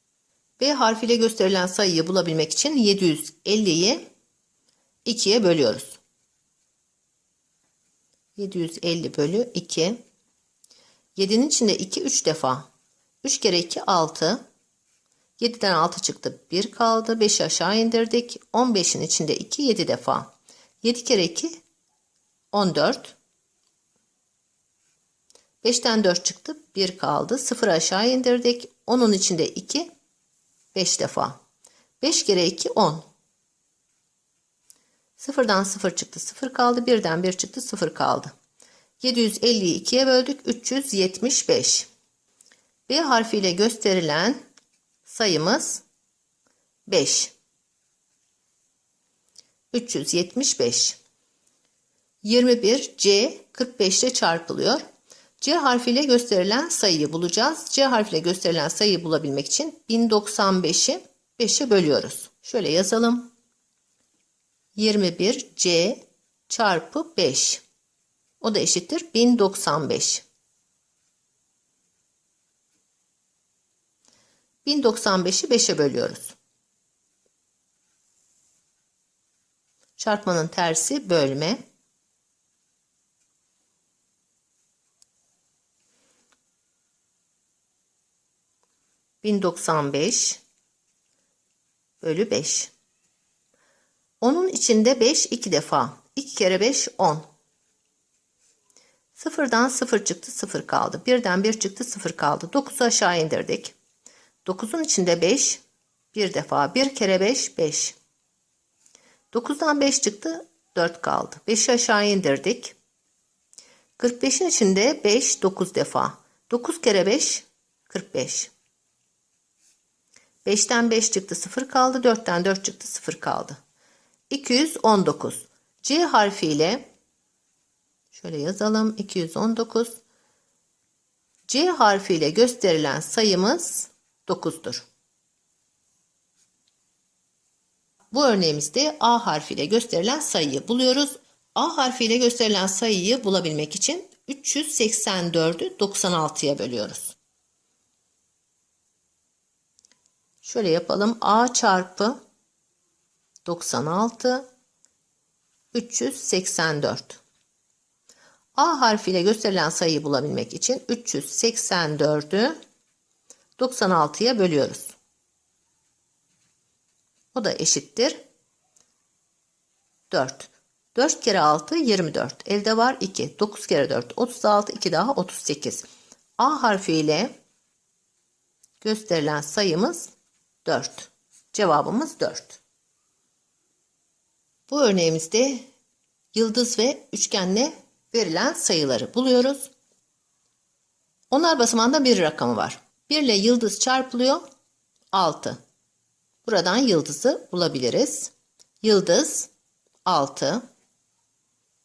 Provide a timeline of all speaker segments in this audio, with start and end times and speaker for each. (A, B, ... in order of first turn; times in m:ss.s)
0:00.6-0:04.0 A
0:05.0-0:06.0 A
0:08.4-0:10.0 A
0:11.2-0:12.7 A
0:13.2-0:14.4 A
0:15.4-0:21.6 A
0:22.5-0:23.2 A
0:25.6-0:29.9 A
0:30.7-0:31.4 A
0:32.0-0:33.1 A
0:35.2-0:38.3 A
0:39.0-0:41.9 A
0:42.9-0:44.4 A
0:45.0-0:45.8 A
0:46.9-0:47.3 A
0:49.7-0:51.0 A
0:52.2-0:54.8 A
0:55.4-1:03.3 A
1:04.8-1:07.6 A
1:08.4-1:10.2 A
1:14.6-1:16.4 A
1:20.0-1:21.6 A
1:29.2-1:30.4 A
1:32.0-1:32.7 A
1:34.2-1:37.3 A
1:39.2-1:43.8 A
1:44.4-1:45.6 A
1:46.1-1:48.0 A
1:49.3-1:52.8 A
1:54.0-1:58.5 A
2:00.4-2:03.6 A
2:04.3-2:06.9 A
2:08.1-2:10.0 A
2:11.5-2:14.9 A
2:18.1-2:27.2 A
2:30.4-2:32.2 A
2:33.4-2:34.5 A
2:35.7-2:37.2 A
2:38.6-2:42.6 A
2:43.6-2:45.0 A
2:47.3-2:48.2 A
2:50.1-2:55.9 A
2:56.4-2:57.3 A
2:58.8-3:00.1 A
3:00.6-3:02.6 A
3:04.7-3:05.7 A
3:06.3-3:09.7 A
3:11.3-3:14.4 A
3:15.1-3:15.6 A
3:16.4-3:19.5 A
3:20.1-3:20.6 A